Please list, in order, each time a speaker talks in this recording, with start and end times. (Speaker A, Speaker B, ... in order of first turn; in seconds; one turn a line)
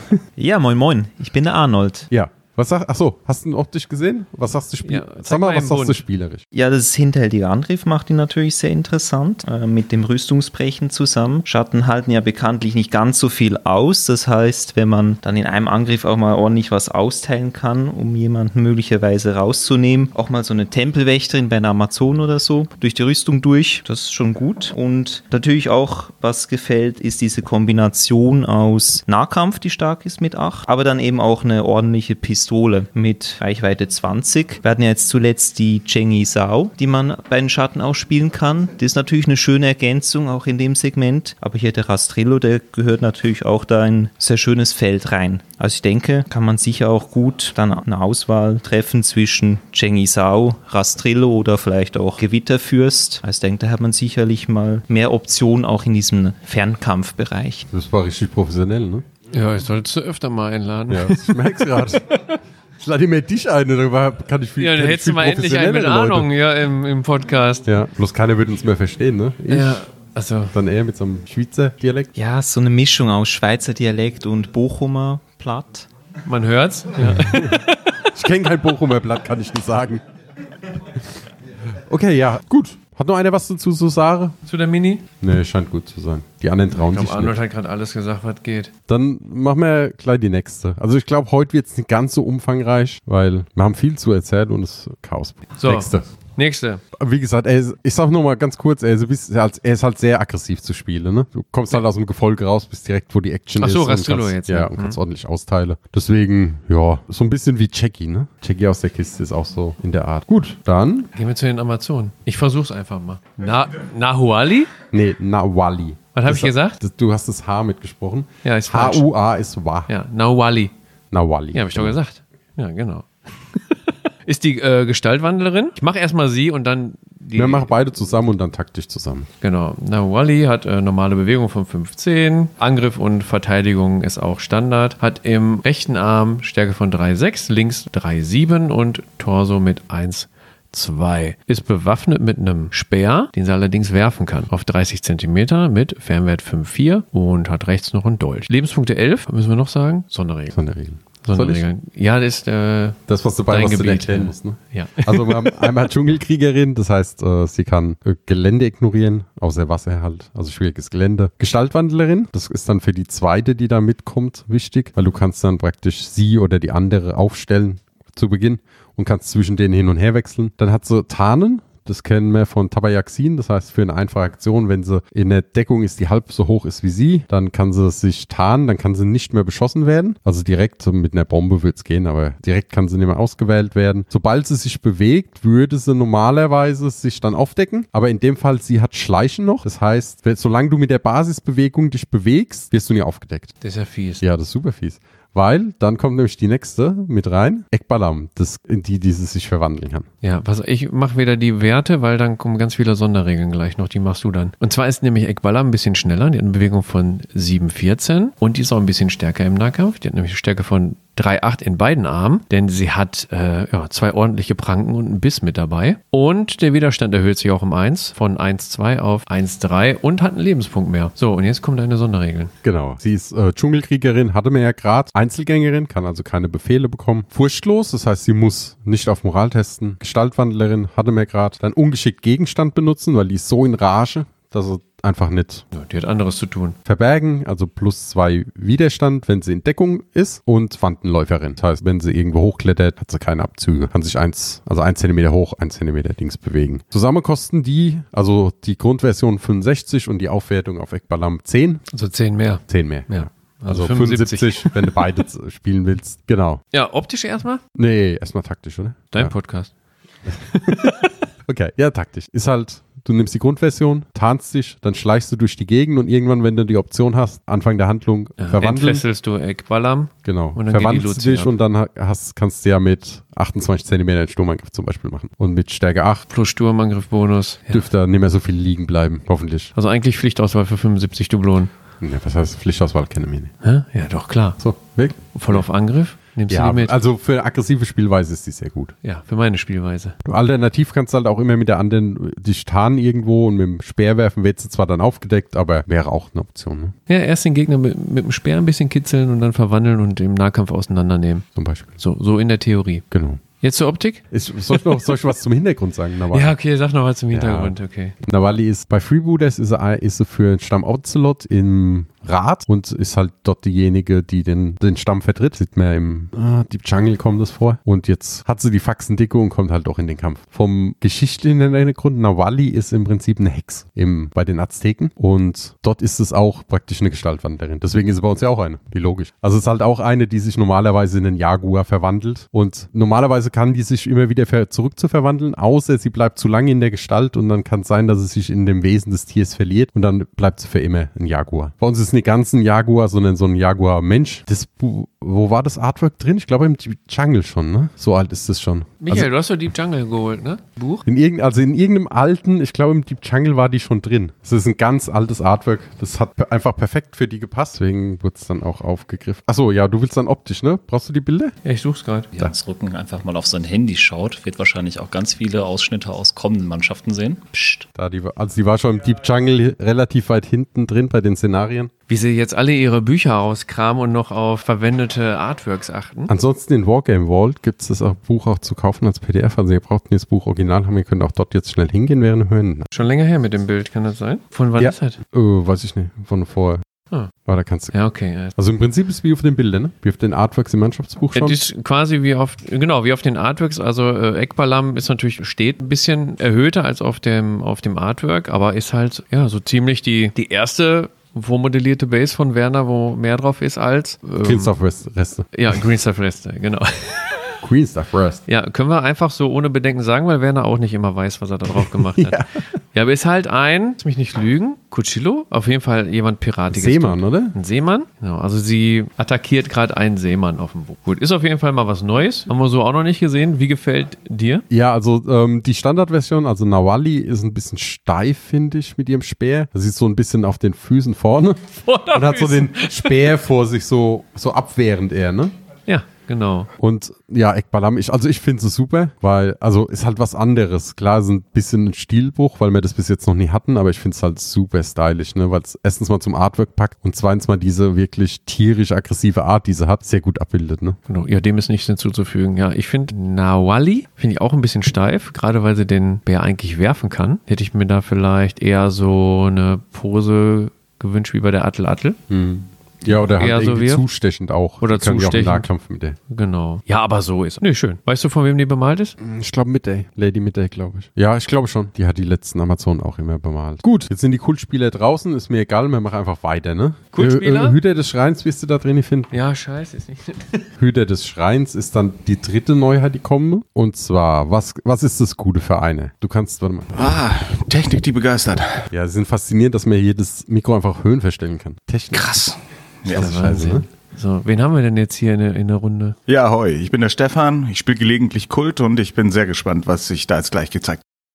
Speaker A: 0.4-2.1
Speaker B: 2.1-6.4
Speaker C: 4.8-6.0
Speaker A: 6.5-57.7
Speaker B: 57.7-59.0
Speaker C: 59.3-62.0
Speaker B: 60.9-62.0
Speaker B: 62.8-66.3
Speaker C: 64.6-67.7
Speaker B: 67.7-69.8
Speaker C: 69.5-70.5
Speaker B: 70.5-72.1
Speaker A: 72.2-75.9
Speaker C: 76.2-78.1
Speaker B: 77.0-77.6
Speaker B: 78.1-80.0
Speaker B: 81.9-84.4
Speaker C: 84.4-85.0
Speaker B: 85.2-87.3
Speaker C: 86.8-88.7
Speaker B: 88.9-96.0
Speaker C: 95.6-96.8
Speaker B: 97.0-111.1
Speaker C: 103.6-105.0
Speaker C: 111.1-114.7
Speaker B: 114.9-119.9
Speaker C: 116.1-116.8
Speaker C: 118.4-119.1
Speaker C: 119.9-120.7
Speaker B: 121.1-121.9
Speaker C: 121.5-127.7
Speaker B: 127.3-129.3
Speaker C: 129.4-150.6
Speaker B: 150.5-151.6
Speaker C: 151.2-155.7
Speaker B: 153.1-193.5
Speaker C: 193.6-194.2
Speaker B: 194.2-200.1
Speaker C: 200.2-222.5
Speaker B: 222.6-235.6
Speaker C: 235.7-236.8
Speaker B: 236.8-251.8
Speaker C: 251.9-255.2
Speaker B: 252.7-256.6
Speaker C: 256.7-257.6
Speaker B: 257.8-259.3
Speaker C: 259.1-259.7
Speaker C: 260.3-261.1
Speaker B: 260.5-269.0
Speaker C: 268.4-271.6
Speaker B: 270.2-276.2
Speaker C: 276.3-277.9
Speaker B: 277.7-279.7
Speaker C: 279.7-281.7
Speaker B: 282.0-283.5
Speaker C: 283.6-284.6
Speaker B: 284.6-285.6
Speaker C: 285.3-286.9
Speaker B: 286.5-288.9
Speaker C: 289.0-290.1
Speaker B: 290.2-296.9
Speaker C: 297.1-301.4
Speaker B: 301.6-301.9
Speaker C: 302.0-303.0
Speaker B: 303.1-303.4
Speaker C: 303.6-305.1
Speaker B: 304.3-306.5
Speaker C: 306.3-308.1
Speaker B: 307.3-349.3
Speaker C: 349.0-351.1
Speaker B: 351.1-361.5
Speaker C: 361.6-362.3
Speaker D: 362.3-367.8
Speaker B: 367.9-371.9
Speaker C: 372.1-376.3
Speaker B: 376.3-382.9
Speaker C: 382.9-385.2
Speaker B: 384.8-386.8
Speaker B: 387.4-387.9
Speaker C: 387.9-388.5
Speaker B: 388.6-391.6
Speaker C: 391.3-404.7
Speaker B: 404.4-405.5
Speaker C: 405.5-407.6
Speaker B: 407.6-408.4
Speaker C: 408.5-424.6
Speaker B: 411.8-412.5
Speaker B: 416.7-417.6
Speaker B: 424.7-431.6
Speaker C: 431.8-433.4
Speaker B: 432.1-435.5
Speaker C: 435.9-436.7
Speaker B: 436.8-451.0
Speaker C: 451.1-462.2
Speaker B: 462.3-466.2
Speaker C: 463.4-464.0
Speaker C: 464.8-465.7
Speaker C: 466.3-469.1
Speaker B: 469.2-479.3
Speaker C: 477.1-477.8
Speaker C: 479.3-480.7
Speaker B: 480.8-487.2
Speaker E: 486.9-488.8
Speaker B: 488.9-492.3
Speaker E: 492.1-493.3
Speaker B: 493.1-493.8
Speaker C: 493.1-496.2
Speaker E: 496.3-501.0